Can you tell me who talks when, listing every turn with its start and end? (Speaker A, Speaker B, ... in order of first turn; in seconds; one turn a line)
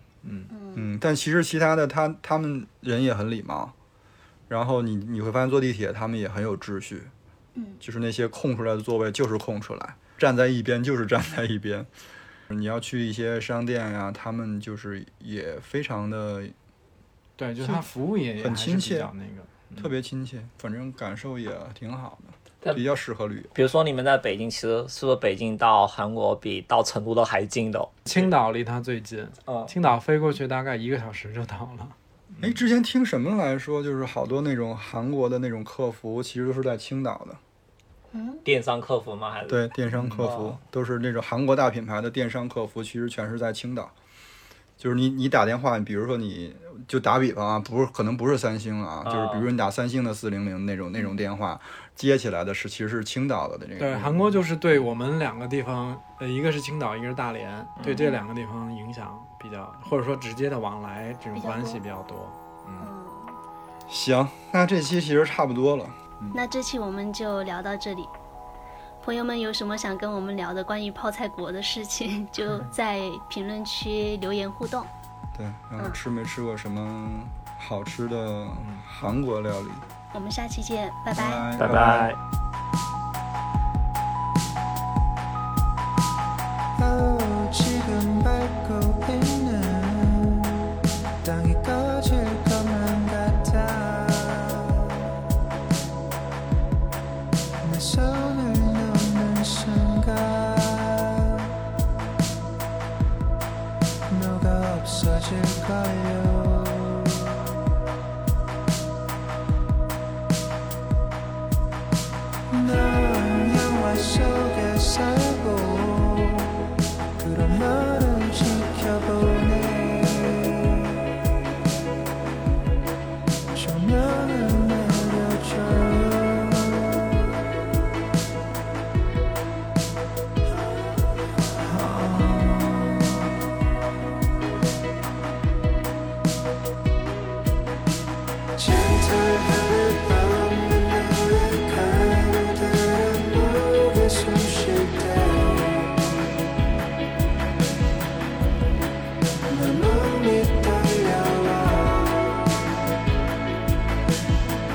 Speaker A: 0.2-0.5
Speaker B: 0.5-0.9
Speaker C: 0.8-3.7
Speaker C: 4.5-7.1
Speaker B: 7.5-7.8
Speaker C: 7.8-11.9
Speaker C: 12.5-16.6
Speaker A: 17.4-19.9
Speaker C: 17.6-17.9
Speaker C: 18.4-19.1
Speaker C: 19.8-23.5
Speaker D: 23.6-28.0
Speaker A: 28.1-32.5
Speaker C: 32.4-37.4
Speaker B: 38.1-38.4
Speaker D: 38.5-39.6
Speaker C: 39.5-43.9
Speaker A: 40.0-40.3
Speaker D: 40.2-40.6
Speaker C: 44.8-54.4
Speaker D: 49.0-49.5
Speaker B: 51.0-51.2
Speaker A: 53.8-62.9
Speaker B: 57.9-58.2
Speaker B: 61.3-61.8
Speaker B: 62.8-63.4
Speaker C: 63.9-66.4
Speaker B: 66.3-68.1
Speaker B: 69.0-74.9
Speaker C: 75.3-79.8
Speaker A: 78.6-78.8
Speaker B: 80.1-81.5
Speaker C: 81.1-82.2
Speaker D: 81.6-82.2
Speaker E: 86.8-90.6
Speaker E: 91.2-94.9
Speaker E: 97.6-101.5
Speaker E: 104.1-107.2
Speaker E: 112.5-116.6
Speaker E: 117.2-120.9
Speaker E: 123.5-127.1
Speaker E: 130.5-133.3
Speaker E: 138.6-145.9
Speaker E: 149.5-152.5